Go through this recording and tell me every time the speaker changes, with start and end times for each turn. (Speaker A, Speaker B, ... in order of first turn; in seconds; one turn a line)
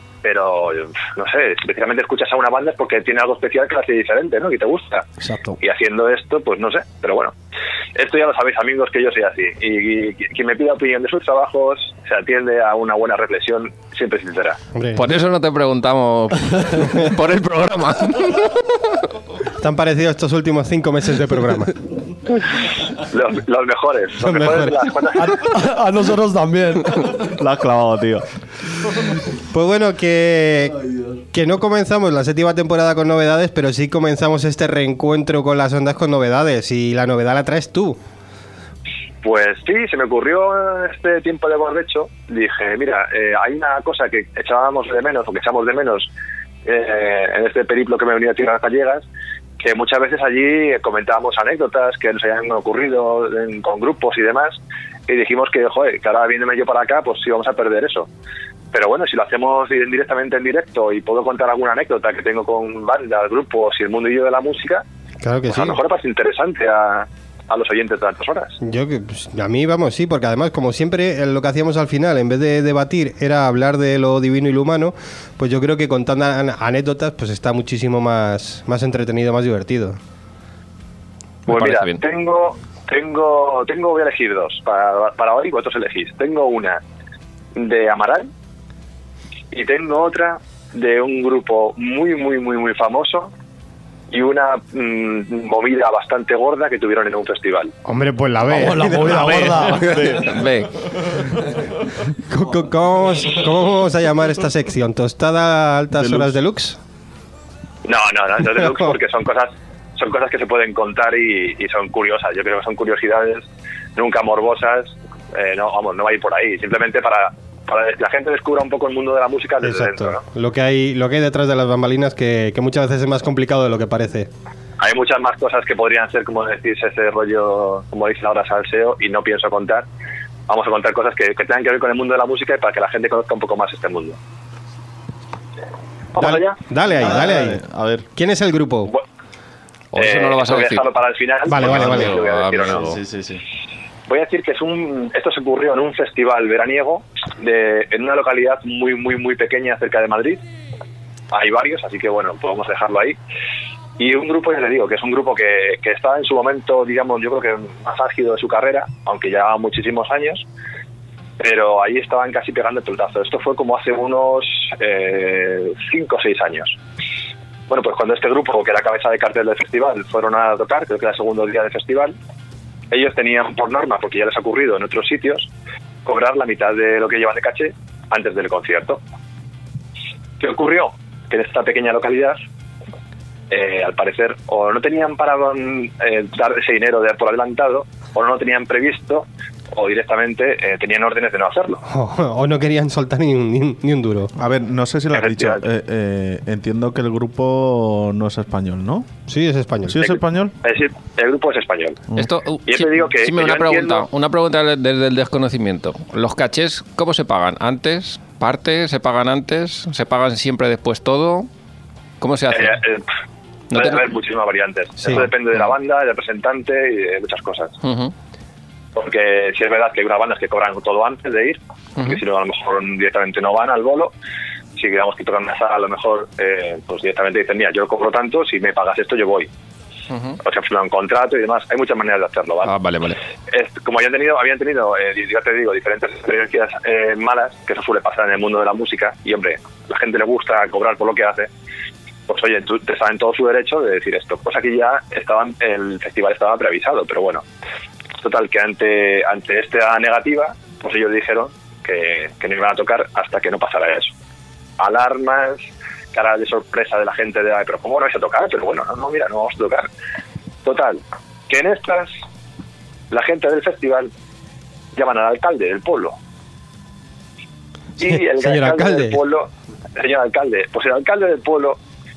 Speaker A: 0.2-5.0
Speaker B: 5.2-5.6
Speaker A: 5.6-7.3
Speaker A: 7.9-14.6
Speaker C: 14.7-15.0
Speaker D: 14.9-18.5
Speaker C: 19.6-21.8
Speaker A: 23.1-25.4
Speaker C: 24.2-24.9
Speaker B: 25.2-27.1
Speaker E: 27.2-28.2
Speaker C: 29.5-30.8
Speaker C: 31.3-38.0
Speaker A: 39.2-46.1
Speaker A: 46.6-49.0
Speaker A: 49.6-58.1
Speaker A: 58.7-64.8
Speaker C: 65.2-65.8
Speaker A: 65.5-68.6
Speaker C: 68.6-80.0
Speaker D: 81.5-82.0
Speaker A: 81.5-86.8
Speaker A: 87.5-88.3
Speaker A: 89.5-93.3
Speaker A: 94.1-97.7
Speaker C: 97.8-99.8
Speaker B: 98.5-99.9
Speaker E: 99.8-100.3
Speaker D: 99.9-100.7
Speaker C: 102.3-106.8
Speaker E: 106.0-106.3
Speaker A: 107.8-120.2
Speaker C: 119.6-124.3
Speaker A: 124.8-129.8
Speaker A: 130.5-134.2
Speaker A: 136.1-136.6
Speaker C: 136.2-137.6
Speaker E: 136.9-138.1
Speaker C: 138.2-138.9
Speaker D: 139.9-140.9
Speaker A: 139.9-142.9
Speaker C: 141.4-142.2
Speaker D: 141.6-142.8
Speaker E: 142.7-143.4
Speaker A: 144.1-150.4
Speaker A: 151.3-153.2
Speaker A: 154.0-160.4
Speaker A: 161.4-166.8
Speaker A: 167.7-172.2
Speaker A: 172.9-175.5
Speaker A: 176.0-179.0
Speaker A: 180.4-182.4
Speaker A: 183.5-191.8
Speaker C: 191.9-194.3
Speaker E: 194.4-199.1
Speaker A: 195.1-195.7
Speaker C: 199.3-200.1
Speaker E: 199.9-200.5
Speaker A: 200.0-202.0
Speaker D: 202.2-211.5
Speaker A: 202.7-204.1
Speaker D: 212.2-212.8
Speaker A: 212.5-213.0
Speaker D: 213.7-214.0
Speaker A: 213.7-217.7
Speaker C: 215.0-215.3
Speaker D: 217.8-218.1
Speaker A: 218.9-224.1
Speaker A: 224.8-229.5
Speaker D: 230.1-230.4
Speaker A: 230.4-232.7
Speaker D: 232.6-233.2
Speaker A: 233.5-241.5
Speaker A: 242.3-247.4
Speaker A: 248.2-254.1
Speaker A: 254.8-259.9
Speaker A: 260.6-262.1
Speaker A: 263.1-264.1
Speaker A: 264.9-266.1
Speaker A: 268.0-271.8
Speaker C: 268.0-269.2